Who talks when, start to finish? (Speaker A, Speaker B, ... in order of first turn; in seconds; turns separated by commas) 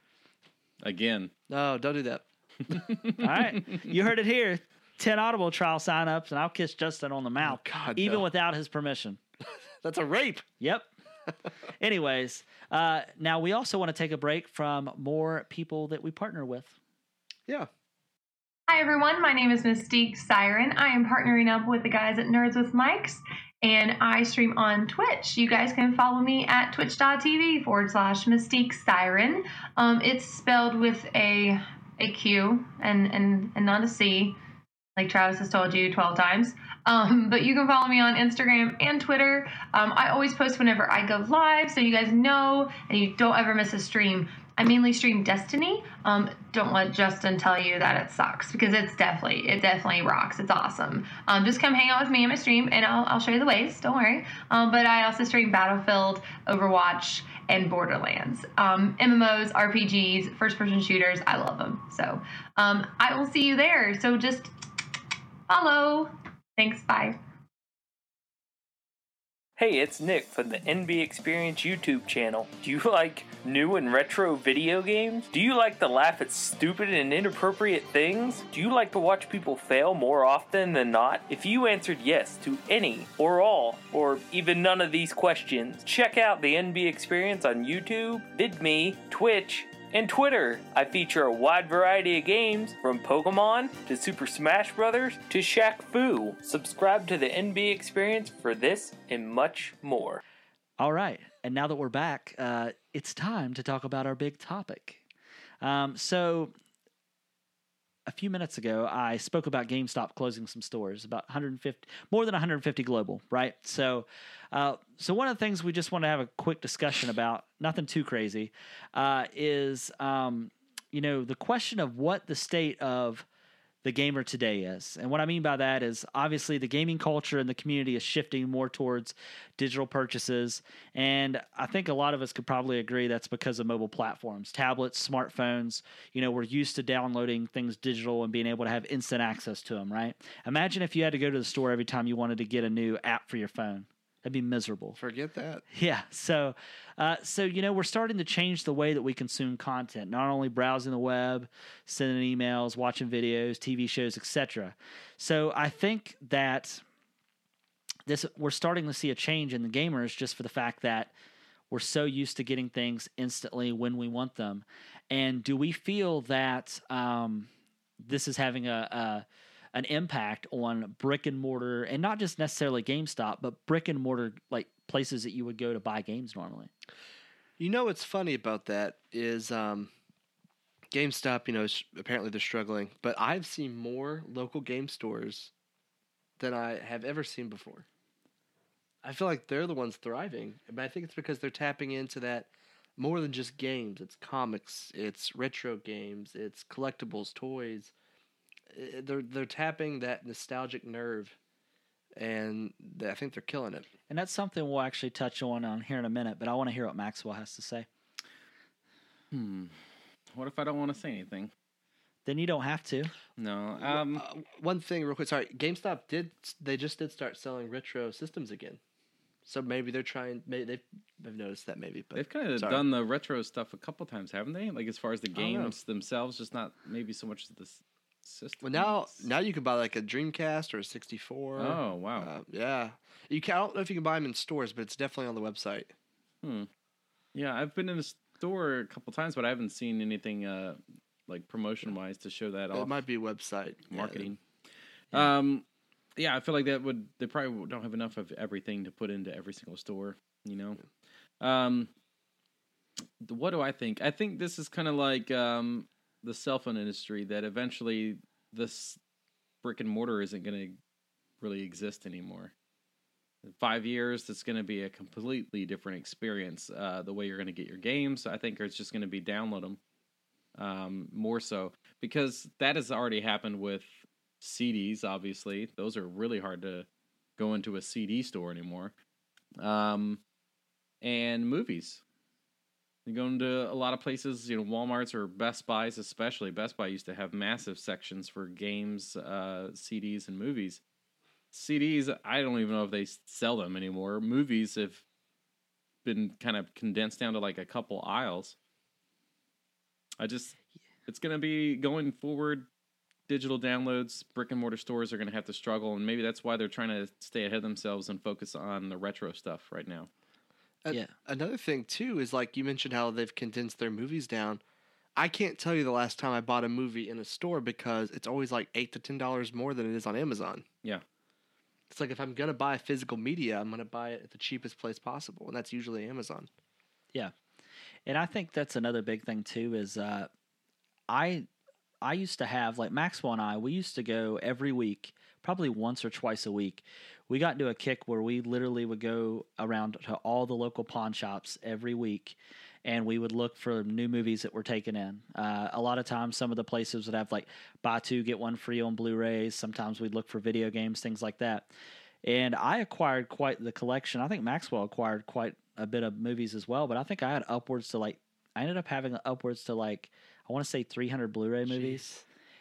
Speaker A: 0.8-1.3, Speaker B: 1.5-2.8, Speaker A: 2.7-3.7, Speaker C: 3.2-9.2, Speaker B: 7.4-8.2, Speaker B: 9.8-10.4, Speaker C: 10.6-10.9, Speaker C: 11.8-16.7, Speaker D: 18.7-34.4, Speaker D: 35.0-64.5, Speaker D: 65.5-67.2, Speaker E: 69.6-100.2, Speaker C: 100.8-105.0, Speaker C: 105.6-106.5, Speaker C: 108.0-123.2, Speaker C: 123.8-145.0, Speaker B: 145.0-145.6, Speaker C: 145.7-156.8, Speaker C: 158.1-161.1, Speaker C: 161.7-176.7, Speaker B: 177.6-179.9, Speaker B: 180.9-185.5, Speaker B: 186.4-187.8, Speaker B: 189.0-197.9, Speaker B: 198.7-201.3, Speaker B: 202.2-203.9, Speaker C: 204.1-207.9, Speaker A: 209.3-209.7, Speaker A: 210.3-211.5, Speaker C: 212.2-213.1, Speaker A: 213.4-214.2, Speaker B: 213.8-218.8, Speaker B: 219.4-222.8, Speaker A: 222.1-229.3, Speaker B: 225.3-225.8, Speaker B: 228.6-235.9, Speaker A: 231.6-232.3, Speaker A: 236.4-236.7, Speaker A: 237.3-242.9, Speaker B: 242.7-244.3, Speaker A: 243.9-244.4, Speaker A: 245.1-245.6, Speaker A: 246.2-250.8, Speaker A: 251.4-251.9, Speaker A: 253.2-259.0, Speaker A: 259.6-260.8, Speaker A: 261.4-262.5, Speaker A: 263.4-269.8, Speaker A: 270.5-273.9, Speaker A: 274.4-278.9, Speaker A: 279.6-280.2, Speaker A: 281.0-282.0, Speaker A: 283.1-290.8, Speaker A: 291.5-295.0, Speaker A: 296.0-298.6, Speaker A: 300.2-300.6, Speaker A: 301.1-302.7, Speaker A: 303.3-310.1, Speaker B: 310.8-314.6, Speaker B: 315.1-320.6, Speaker B: 321.9-326.5, Speaker C: 328.1-330.3, Speaker C: 331.1-331.5, Speaker C: 332.0-351.7, Speaker C: 352.2-362.1, Speaker B: 361.6-362.2